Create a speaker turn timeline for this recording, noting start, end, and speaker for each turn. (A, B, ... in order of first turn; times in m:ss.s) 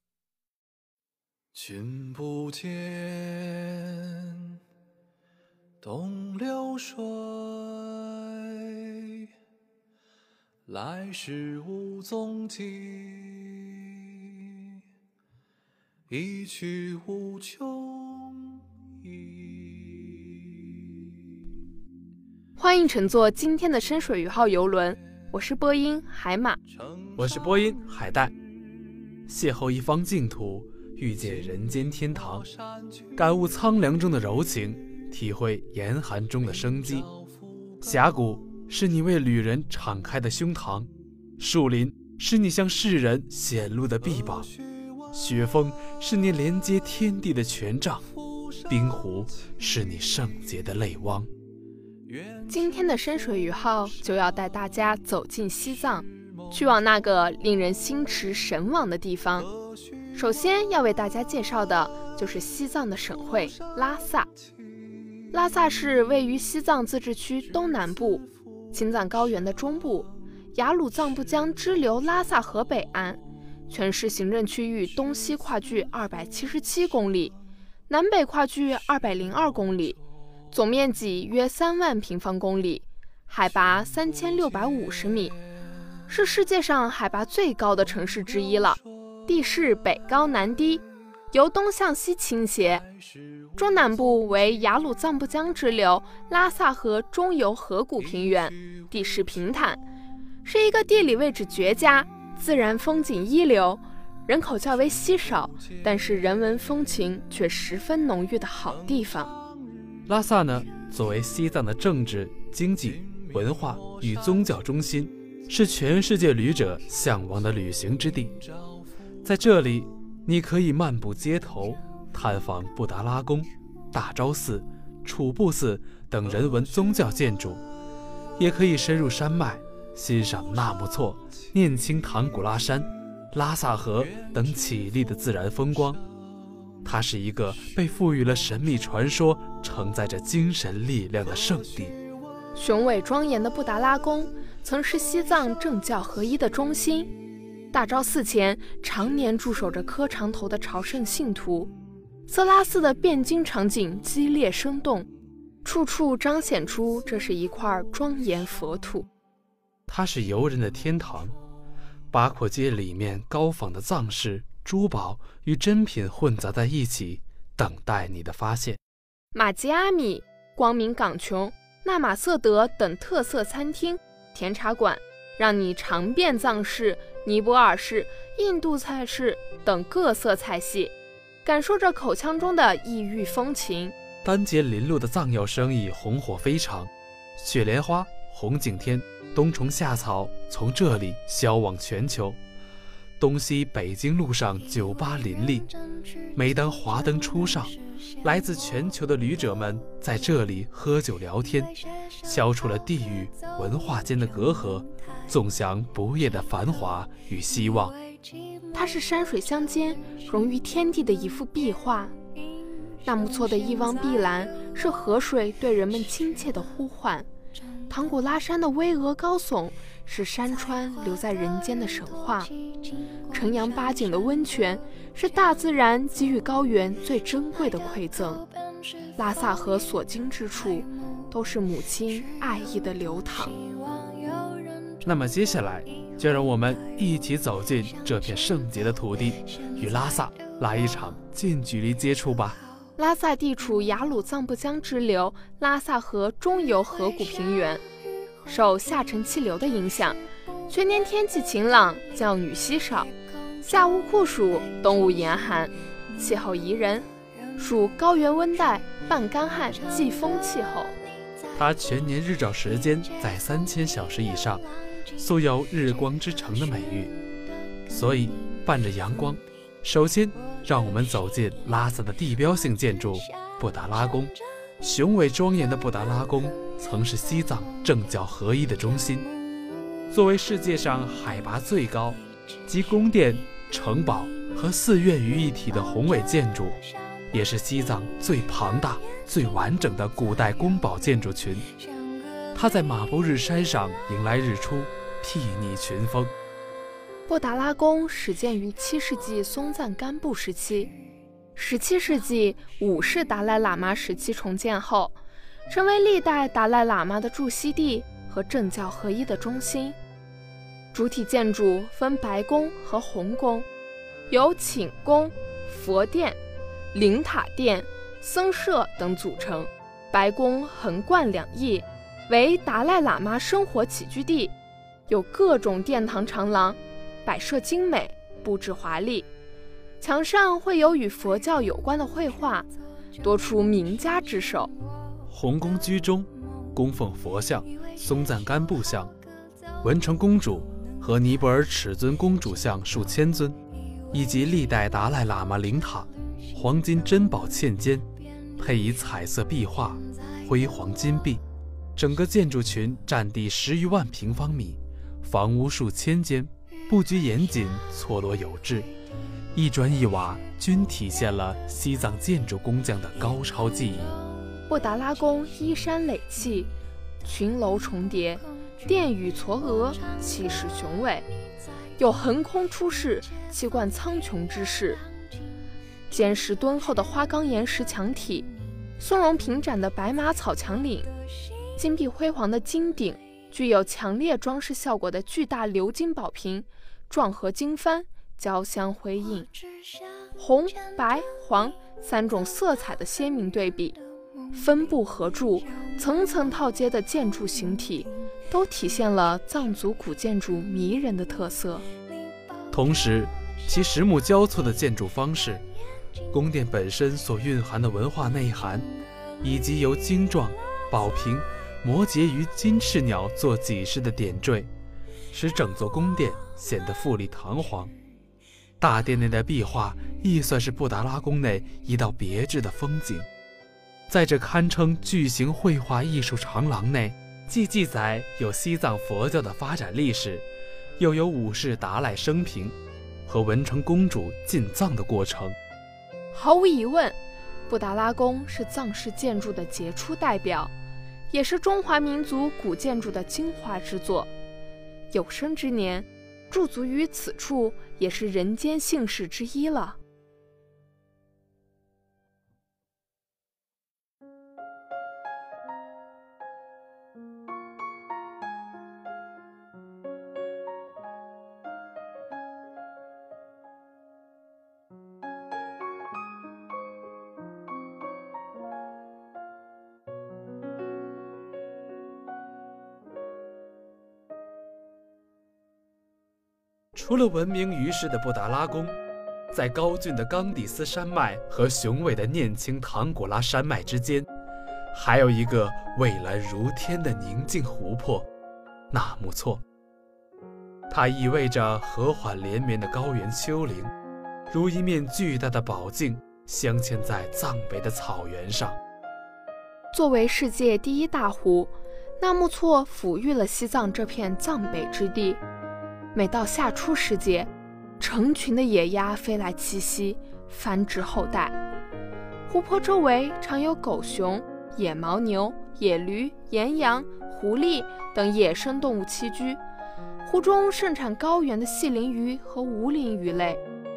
0:01.5-0:04.6 A
0:05.8-0:09.3 A
0:10.7-0:14.2 A
0:16.1-0:20.1 A
0:22.6-0:26.6 B
0:26.8-0:27.2 A
0:27.1-0:28.3 C
0:29.3-0:32.5 C
0:33.1-0:37.1 C
0:37.8-0:44.5 C
0:45.1-0:48.1 C
0:48.7-0:51.3 C
0:52.5-0:59.5 B
1:00.1-1:04.3 B
1:05.3-1:17.3 B
1:17.9-1:20.0 B
1:20.5-1:25.4 B
1:26.1-1:32.8 B
1:33.6-1:39.8 B
1:40.4-1:49.3 B
1:50.0-1:58.4 C
1:59.2-2:07.6 C
2:08.4-2:16.0 C
2:16.8-2:21.9 C
2:22.6-2:27.1 B
2:27.7-2:31.7 B
2:32.3-2:35.1 B
2:35.6-2:39.1 B
2:39.9-2:41.4 C
2:42.1-2:48.8 C
2:49.3-3:00.9 B
3:01.4-3:03.9 B
3:04.2-3:12.4 C
3:13.2-3:15.7 C
3:16.3-3:27.9 C
3:28.7-3:32.1 B
3:33.0-3:37.3 B
3:37.9-3:42.5 B
3:43.3-3:48.4 B
3:49.2-3:53.6 B
3:55.0-4:02.6 C
4:03.0-4:07.8 B
4:08.4-4:20.9 B
4:21.5-4:24.6 C
4:25.2-4:27.1 C
4:27.9-4:39.3 C
4:40.1-4:46.8 C
4:47.3-4:51.6 C
4:52.5-4:56.3 C
4:57.3-5:00.9 B
5:01.6-5:05.2 B
5:05.7-5:10.0 B
5:10.9-5:13.7 B
5:14.3-5:16.4 B
5:16.9-5:24.5 B
5:25.1-5:29.3 B
5:30.0-5:34.7 B
5:35.3-5:39.1 C
5:39.8-5:43.6 C
5:44.1-5:48.1 C
5:48.6-5:51.4 C
5:52.0-5:58.9 C
5:59.5-6:04.2 C
6:04.7-6:06.7 B
6:07.2-6:11.2 B
6:12.0-6:15.0 B
6:16.1-6:18.5 B
6:19.0-6:21.1 B
6:21.8-6:29.5 B
6:30.4-6:34.0 B
6:34.5-6:41.9 B
6:42.7-6:45.6 C
6:46.3-6:48.9 C
6:49.4-6:54.7 C
6:55.3-6:57.9 C
6:58.8-7:03.2 C
7:04.1-7:10.4 C
7:11.0-7:12.7 C
7:13.2-7:15.5 C
7:16.3-7:17.2 B
7:17.7-7:20.7 B
7:21.3-7:24.3 B
7:25.1-7:30.0 B
7:56.9-7:58.9 C
7:59.5-8:04.3 C
8:04.9-8:08.3 C
8:08.9-8:09.6 C
8:10.9-8:13.9 C
8:14.5-8:18.8 C
8:19.9-8:25.4 B
8:26.1-8:31.6 B
8:32.5-8:39.6 B
8:40.2-8:43.6 B